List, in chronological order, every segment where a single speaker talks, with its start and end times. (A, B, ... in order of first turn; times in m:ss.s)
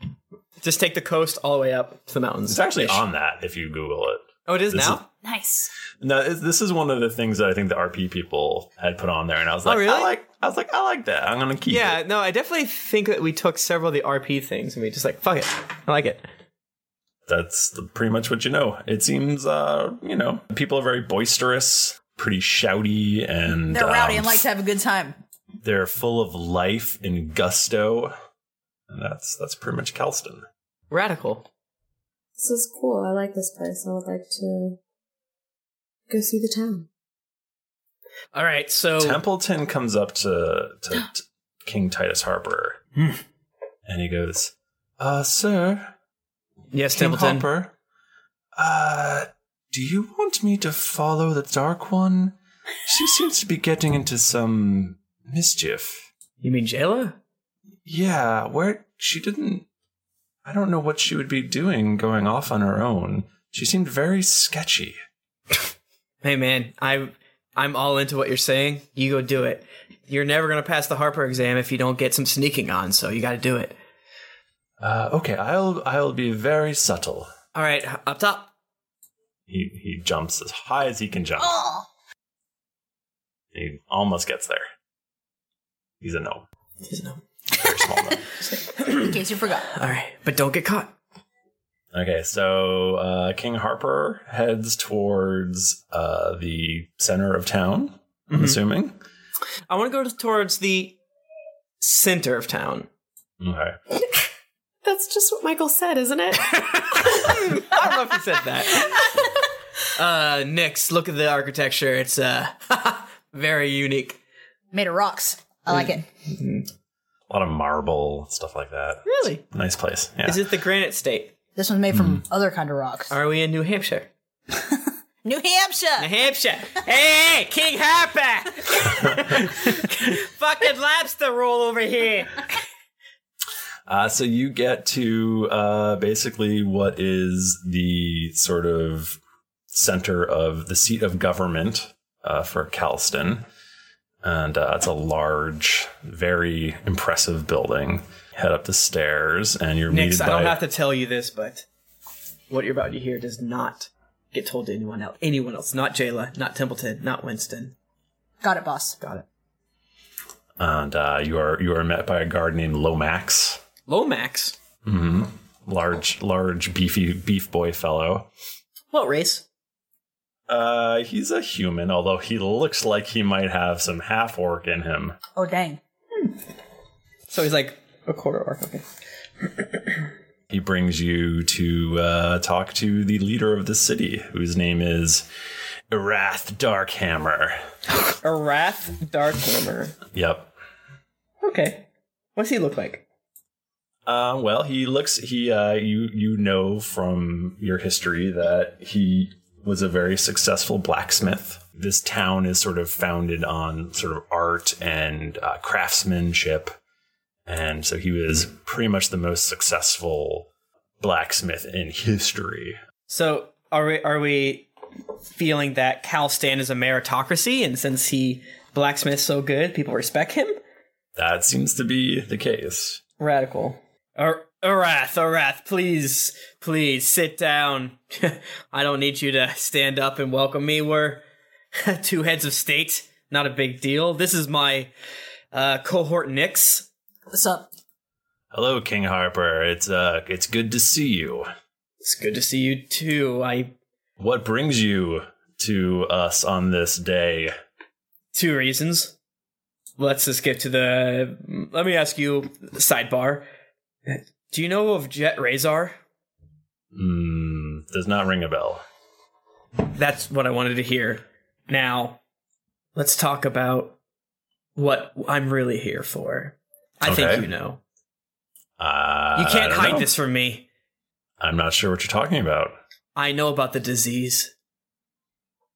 0:00.6-0:03.0 A
0:02.5-0:05.0 B
0:04.4-0:05.0 A
0:05.2-0:05.7 C
0:06.0-0:12.0 B
0:09.6-0:10.1 A
0:11.7-0:16.2 A
0:17.3-0:24.4 B
0:23.7-0:25.2 C
0:25.6-0:28.1 B
0:28.9-0:30.4 B
0:30.9-0:31.4 A
0:32.4-0:34.8 D
0:36.1-0:36.9 D
0:38.3-0:39.2 A
0:39.0-0:42.8 B
0:43.8-0:45.9 B
0:46.7-0:47.5 A
0:46.9-0:47.7 B
0:48.6-0:56.0 B
0:56.4-0:57.2 A
0:57.8-0:59.6 B
1:00.4-1:05.0 B
1:06.2-1:13.8 A
1:14.8-1:17.3 B
1:17.5-1:18.5 A
1:19.5-1:21.6 B
1:21.5-1:21.8 C
1:23.5-1:24.6 B
1:26.0-1:26.4 B
1:26.8-1:27.2 A
1:27.5-1:28.3 B
1:28.8-1:29.1 A
1:28.8-1:29.7 C
1:29.7-1:30.9 A
1:31.9-1:39.0 B
1:38.3-1:38.6 A
1:39.7-1:41.0 A
1:41.8-1:42.9 A
1:43.4-1:43.8 B
1:44.8-1:46.6 D
1:46.9-1:49.1 A
1:49.9-1:54.2 A
1:54.7-1:56.0 C
1:55.7-1:56.6 A
1:57.3-2:00.4 B
1:59.0-1:59.4 A
2:00.2-2:01.3 A
2:01.6-2:03.1 C
2:01.9-2:02.2 B
2:03.1-2:04.1 A
2:05.2-2:06.1 C
2:06.0-2:12.4 A
2:13.9-2:19.2 B
2:19.7-2:23.4 B
2:24.2-2:30.6 B
2:29.9-2:31.6 A
2:32.5-2:37.7 A
2:38.4-2:39.0 C
2:40.6-2:43.6 B
2:43.9-2:44.6 A
2:44.8-2:48.3 B
2:48.9-2:49.4 A
2:50.5-2:55.2 B
2:55.3-2:55.8 C
2:57.3-2:58.8 A
3:00.5-3:05.2 B
3:05.9-3:07.6 B
3:08.2-3:10.0 A
3:10.1-3:10.5 B
3:11.4-3:13.0 A
3:14.0-3:26.7 B
3:27.5-3:30.5 B
3:31.0-3:32.8 B
3:33.1-3:34.7 A
3:35.3-3:40.6 A
3:41.2-3:43.0 B
3:43.2-3:51.2 A
3:51.8-3:54.9 A
3:55.5-3:56.9 A
3:57.3-3:57.7 C
3:58.5-4:01.4 B
4:02.0-4:03.7 A
4:04.2-4:07.5 B
4:08.3-4:09.1 A
4:10.0-4:13.4 A
4:14.0-4:16.0 A
4:16.9-4:18.8 B
4:19.8-4:22.2 A
4:23.0-4:24.0 A
4:24.8-4:27.8 A
4:27.0-4:27.4 B
4:28.8-4:30.1 B
4:29.4-4:30.6 A
4:31.4-4:32.7 B
4:33.2-4:34.5 A